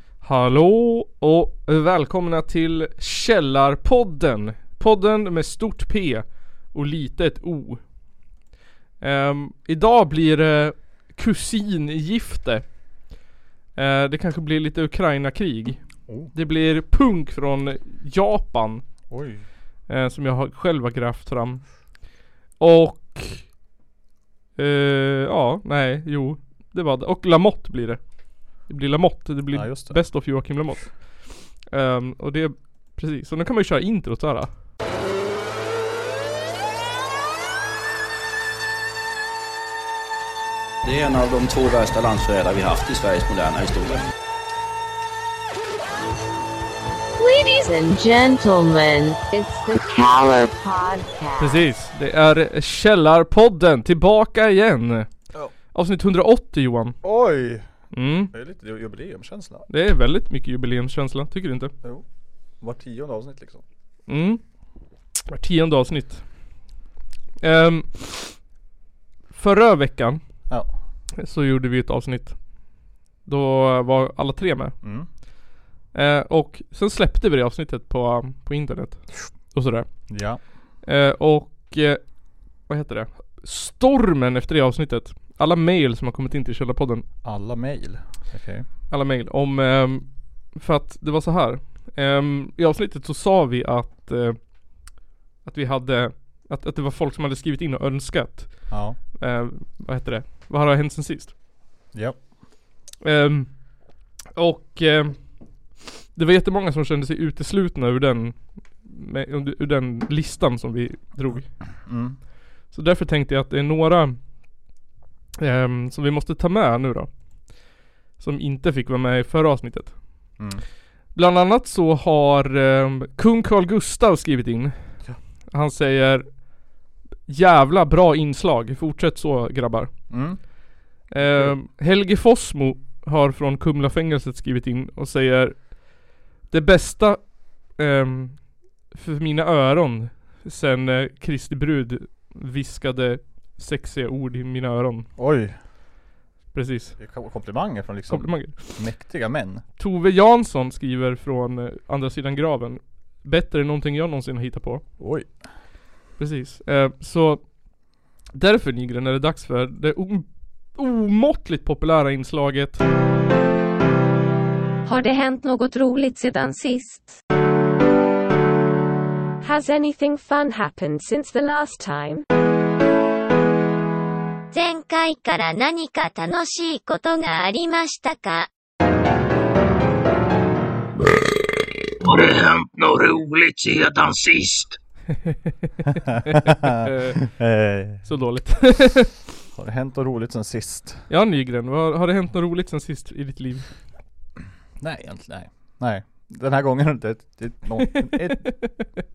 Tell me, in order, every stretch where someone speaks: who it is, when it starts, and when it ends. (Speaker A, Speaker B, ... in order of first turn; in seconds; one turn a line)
Speaker A: 0.2-7.8
Speaker A: 9.0-12.7
Speaker A: 13.7-18.9
Speaker B: 19.1-19.4
Speaker A: 19.9-22.0
Speaker A: 22.6-23.5
Speaker A: 24.6-34.5
Speaker B: 29.5-30.6
Speaker C: 40.8-44.0
Speaker D: 47.2-51.6
Speaker A: 51.4-55.1
Speaker A: 55.7-57.0
Speaker B: 57.0-59.6
Speaker A: 57.9-58.3
Speaker A: 59.7-61.7
Speaker B: 62.6-63.6
Speaker A: 64.1-64.4
Speaker A: 65.3-66.3
Speaker A: 67.4-68.4
Speaker A: 69.3-70.2
Speaker B: 70.5-70.7
Speaker A: 71.2-72.4
Speaker A: 73.2-74.8
Speaker B: 74.8-75.1
Speaker A: 75.9-80.1
Speaker B: 80.1-80.5
Speaker A: 80.8-87.0
Speaker B: 87.2-88.7
Speaker A: 88.9-101.3
Speaker B: 98.7-99.0
Speaker B: 101.9-102.2
Speaker A: 103.0-103.7
Speaker A: 104.3-105.4
Speaker A: 106.1-111.5
Speaker B: 111.7-112.2
Speaker A: 112.7-114.2
Speaker A: 115.4-117.6
Speaker A: 118.2-120.4
Speaker B: 120.4-120.6
Speaker A: 121.1-124.8
Speaker A: 125.5-126.5
Speaker A: 127.3-130.1
Speaker B: 130.1-131.6
Speaker A: 131.1-145.1
Speaker B: 145.2-145.6
Speaker A: 146.5-147.0
Speaker B: 147.0-149.6
Speaker A: 148.1-148.9
Speaker A: 149.8-154.8
Speaker B: 155.0-155.4
Speaker A: 156.2-162.8
Speaker E: 164.8-167.2
Speaker E: 169.4-172.2
Speaker F: 174.5-178.5
Speaker G: 182.0-184.8
Speaker B: 186.6-188.1
Speaker A: 186.7-187.3
Speaker A: 188.0-189.1
Speaker B: 189.5-191.1
Speaker A: 191.1-193.7
Speaker B: 194.8-198.6
Speaker A: 198.1-198.8